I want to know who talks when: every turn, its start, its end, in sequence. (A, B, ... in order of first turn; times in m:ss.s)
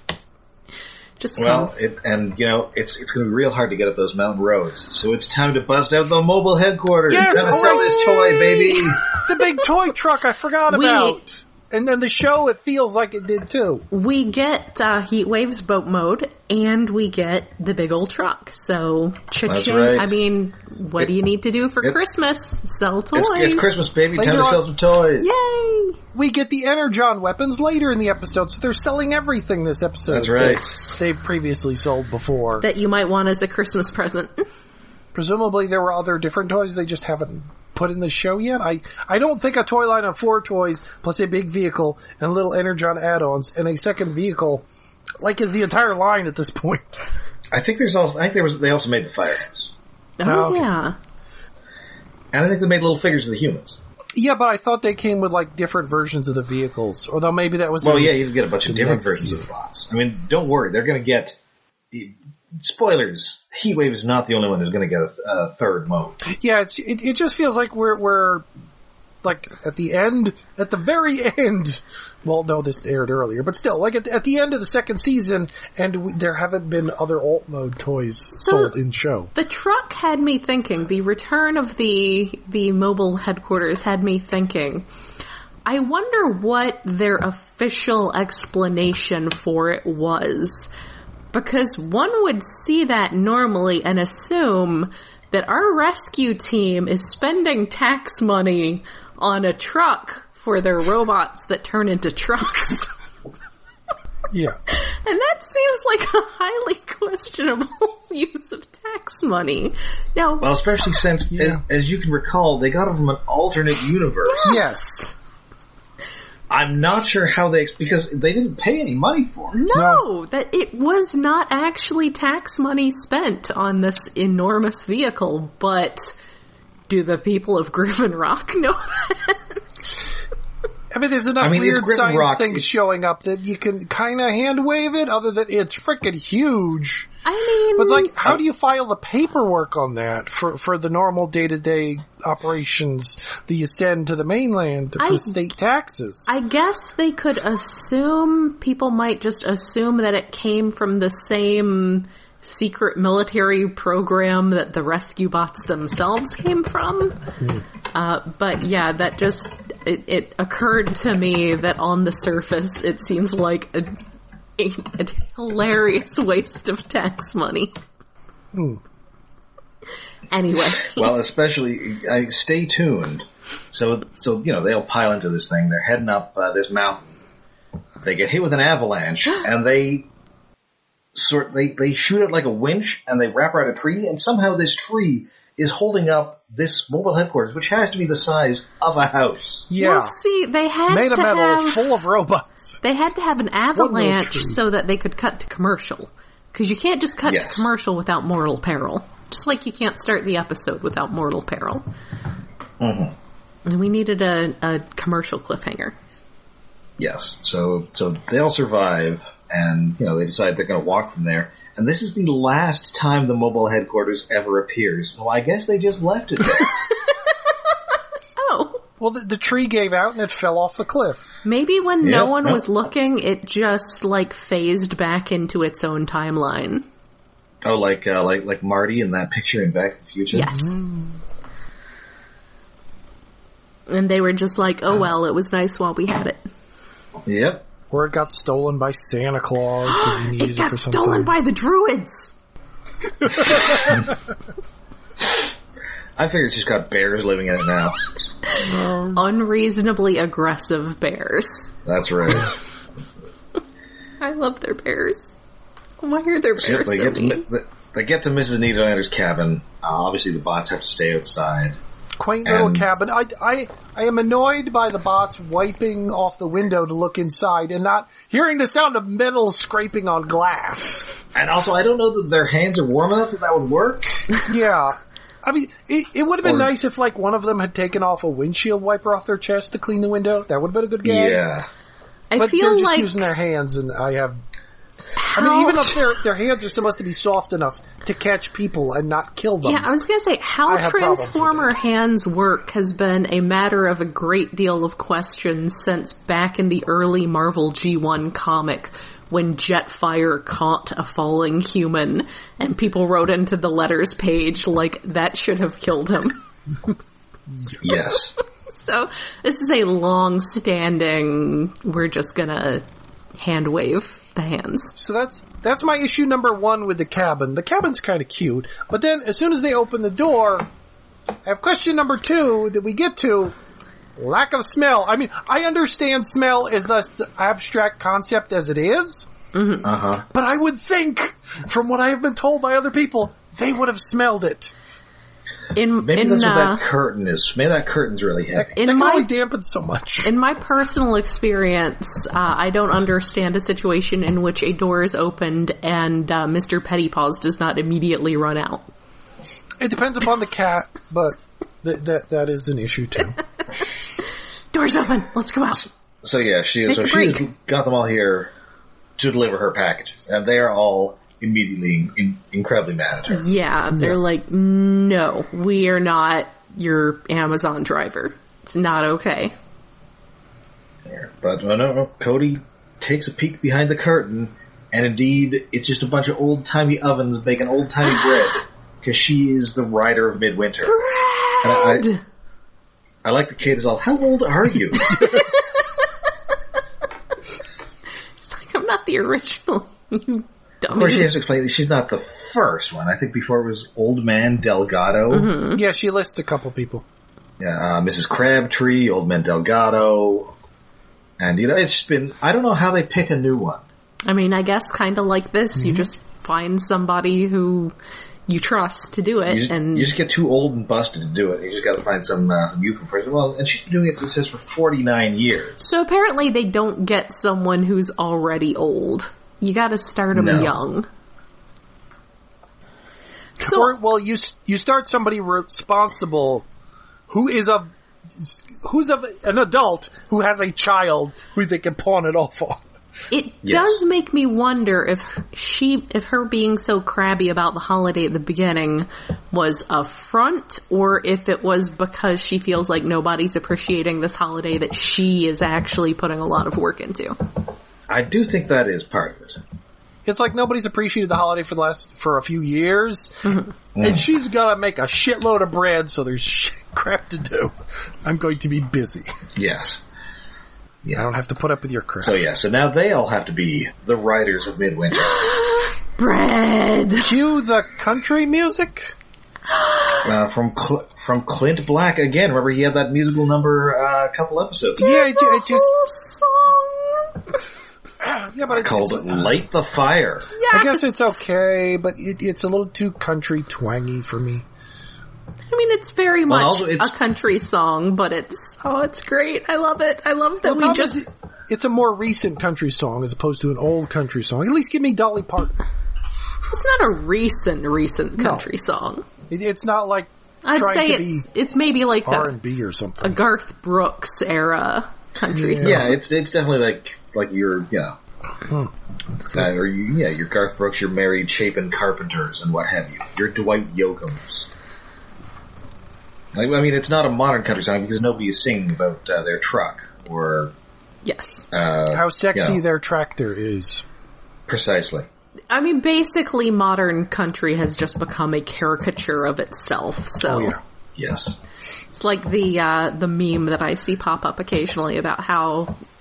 0:01.2-0:01.7 A
0:01.4-0:09.0 B
0:07.1-0:13.8 C
0:07.3-0:09.6 A
0:10.7-0:11.2 A
0:13.9-0:23.7 A
0:19.5-0:20.2 B
0:23.1-0:25.3 B
0:24.2-0:24.6 C
0:25.2-0:26.0 A
0:26.1-0:32.7 C
0:30.1-0:30.6 B
0:32.6-0:34.4 A
0:35.1-0:44.7 C
0:45.2-0:47.0 C
0:47.5-0:49.7 B
0:50.2-0:51.0 A
0:50.2-0:50.7 C
0:52.3-0:53.8 B
0:54.2-0:59.4 C
0:57.8-1:01.4 B
1:01.9-1:06.2 B
1:06.2-1:08.5 C
1:09.2-1:19.3 C
1:18.3-1:18.7 A
1:19.3-1:24.9 A
1:25.6-1:30.7 A
1:31.3-1:42.9 A
1:44.3-1:44.6 C
1:44.7-1:50.6 A
1:50.4-1:54.6 B
1:51.3-1:51.6 C
1:54.3-1:54.8 A
1:54.4-1:55.1 C
1:56.5-1:59.6 B
1:59.5-2:06.2 A
1:59.7-2:00.0 C
2:06.9-2:09.6 A
2:10.9-2:17.1 C
2:11.4-2:12.7 B
2:17.2-2:18.2 A
2:17.8-2:26.4 C
2:25.0-2:25.4 A
2:26.3-2:37.2 A
2:37.4-2:37.6 C
2:37.9-2:44.0 A
2:44.6-2:47.8 A
2:48.5-2:48.8 C
2:50.3-2:51.1 A
2:50.8-2:57.1 B
2:58.0-3:00.1 B
3:01.2-3:09.7 B
3:09.7-3:10.2 C
3:09.8-3:12.0 A
3:10.9-3:12.8 C
3:12.8-3:21.9 A
3:13.8-3:14.6 C
3:17.2-3:17.7 B
3:22.8-3:23.1 B
3:23.6-3:26.0 A
3:27.0-3:36.7 B
3:38.4-3:38.8 A
3:39.0-3:41.3 C
3:41.4-3:46.8 A
3:42.0-3:42.6 B
3:47.6-3:50.6 B
3:50.3-3:50.8 A
3:50.5-3:51.2 C
3:53.9-3:56.4 A
3:57.3-3:57.6 B
3:57.9-4:01.3 C
3:59.9-4:02.3 A
4:03.3-4:03.8 C
4:06.2-4:08.0 B
4:08.6-4:09.2 C
4:09.1-4:11.7 A
4:11.9-4:12.5 B
4:14.2-4:15.3 A
4:16.0-4:17.4 A
4:16.6-4:21.8 B
4:22.2-4:31.1 C
4:22.4-4:22.9 B
4:31.4-4:34.2 B
4:34.5-4:41.4 C
4:41.0-4:41.7 B
4:42.3-4:43.3 A
4:42.4-4:44.4 C
4:45.2-4:46.1 A
4:45.3-4:49.9 C
4:49.6-5:06.4 A
4:50.7-4:51.7 C
5:07.8-5:08.4 B
5:08.7-5:12.8 A
5:13.4-5:14.9 A
5:15.0-5:20.7 C
5:21.4-5:23.6 C
5:24.2-5:29.3 C
5:29.5-5:29.9 A
5:29.8-5:30.2 B
5:30.3-5:34.7 C
5:35.8-5:36.8 A
5:36.0-5:38.8 B
5:38.8-5:40.3 C
5:38.8-5:39.3 A
5:40.2-5:48.9 A
5:49.8-5:53.4 C
5:54.7-5:55.9 A
5:55.8-5:58.5 B
5:56.9-5:57.4 A
5:59.2-6:03.5 B
6:03.3-6:09.6 A
6:11.1-6:21.0 B
6:20.9-6:22.2 A
6:21.6-6:22.1 B
6:23.2-6:25.4 B
6:25.1-6:25.6 C
6:25.2-6:25.5 A
6:28.4-6:31.3 A
6:30.9-6:35.5 B
6:35.3-6:35.8 A
6:35.7-6:37.0 C
6:37.6-6:40.6 B
6:41.4-6:43.8 B
6:44.3-6:47.9 A
6:45.8-6:46.1 C
6:48.5-6:50.1 A
6:49.5-6:56.0 B
6:55.8-7:01.1 A
7:00.3-7:00.7 B
7:03.6-7:03.9 A
7:03.6-7:06.7 C
7:07.3-7:12.8 C
7:13.3-7:27.4 A
7:13.6-7:14.0 B
7:28.1-7:29.6 B
7:30.2-7:39.3 C
7:34.0-7:34.2 B
7:39.6-7:40.0 B
7:41.2-7:42.4 C
7:42.2-7:45.5 B
7:45.2-7:47.4 A
7:47.2-7:49.2 C
7:49.7-7:50.3 A
7:50.2-7:55.2 B
7:55.0-7:56.0 C
7:55.0-7:57.6 A
7:58.2-7:59.6 C
7:58.7-8:00.5 B
8:00.6-8:01.3 A
8:00.7-8:04.7 C
8:05.7-8:11.2 A
8:06.5-8:07.1 B
8:10.6-8:15.7 C
8:16.7-8:19.2 A
8:18.4-8:18.6 C
8:19.5-8:21.5 C
8:20.6-8:22.5 A
8:22.2-8:23.4 C
8:23.2-8:26.1 A
8:25.5-8:26.2 C
8:25.8-8:28.2 B
8:29.5-8:34.7 B
8:36.5-8:40.7 B
8:41.2-8:41.7 A
8:41.7-8:42.8 B
8:42.1-8:44.0 C
8:44.7-8:45.3 B
8:45.7-8:50.8 A
8:50.4-8:50.8 C
8:51.2-8:51.6 B
8:52.1-8:56.0 A